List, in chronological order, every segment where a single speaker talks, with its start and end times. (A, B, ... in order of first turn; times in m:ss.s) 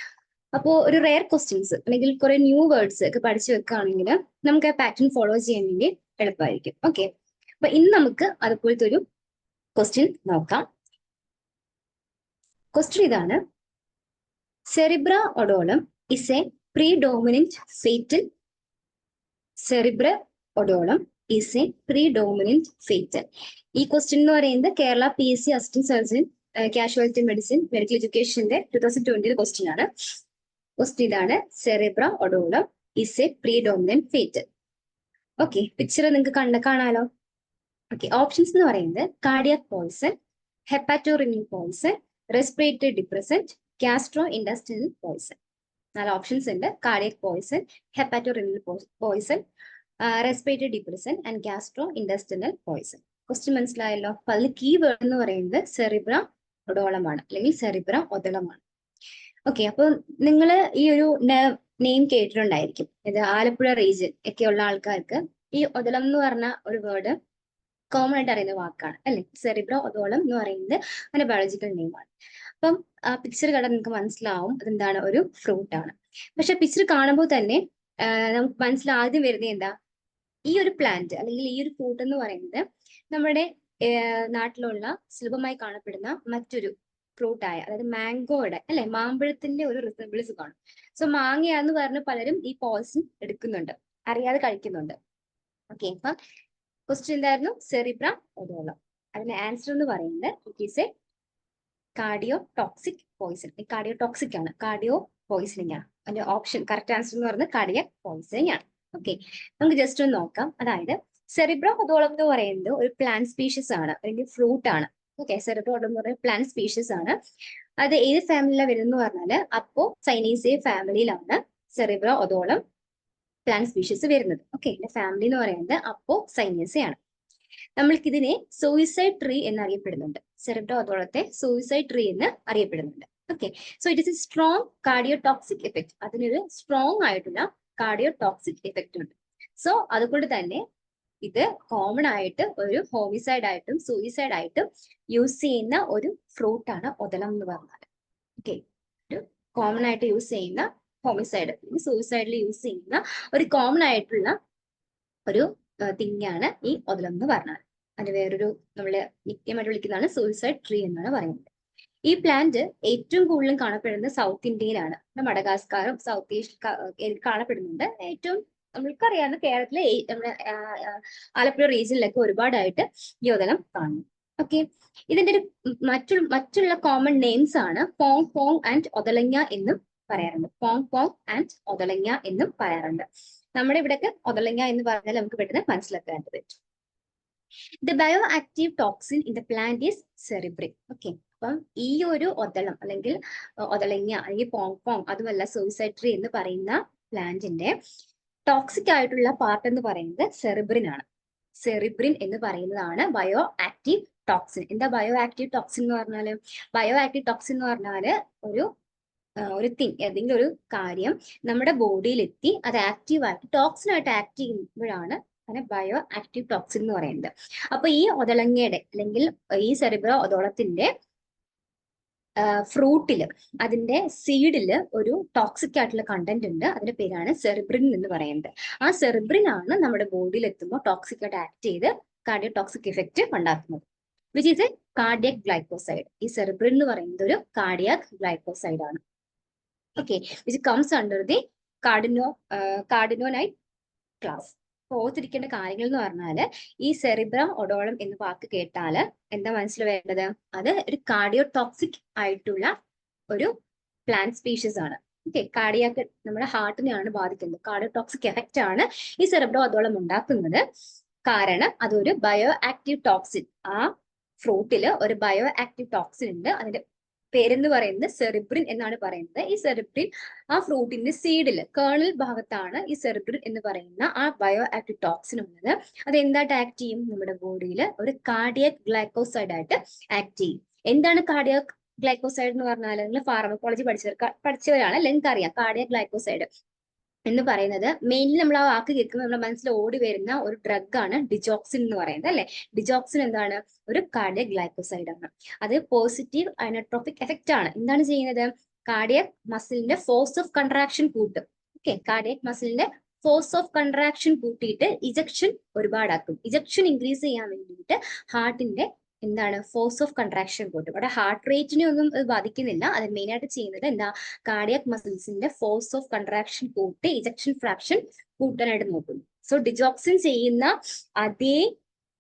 0:00.5-0:07.1 A
0:07.6-0:09.0 A
0:09.8-0:10.7 A
0:12.7-0:13.4 A
0:14.7-0:18.2 A
0:19.6-0:29.9 A
0:30.8-0:34.4 A
0:35.4-0:37.1 A
0:37.9-0:40.2 A
0:40.7-0:45.4 A
0:46.0-0:49.4 A
0:50.0-0:58.6 A
0:59.5-1:07.2 A
1:07.9-1:12.1 A
1:12.6-1:19.8 A
1:20.5-1:35.0 A
1:35.7-1:36.2 A
1:36.9-1:40.9 A
1:42.0-1:57.2 A
1:57.8-2:02.6 A
2:03.5-2:07.0 A
2:07.8-2:20.6 A
2:21.2-2:27.9 A
2:28.4-2:34.4 A
2:35.3-2:41.5 A
2:42.1-3:03.0 A
3:03.6-3:06.6 A
3:07.8-3:17.7 A
3:18.5-3:21.0 A
3:21.6-3:28.7 A
3:29.4-3:40.9 A
3:42.4-3:59.0 A
4:00.0-4:03.5 A
4:04.2-4:12.8 A
4:14.1-4:20.6 A
4:21.3-4:26.8 A
4:27.3-4:46.5 A
4:47.3-5:21.7 A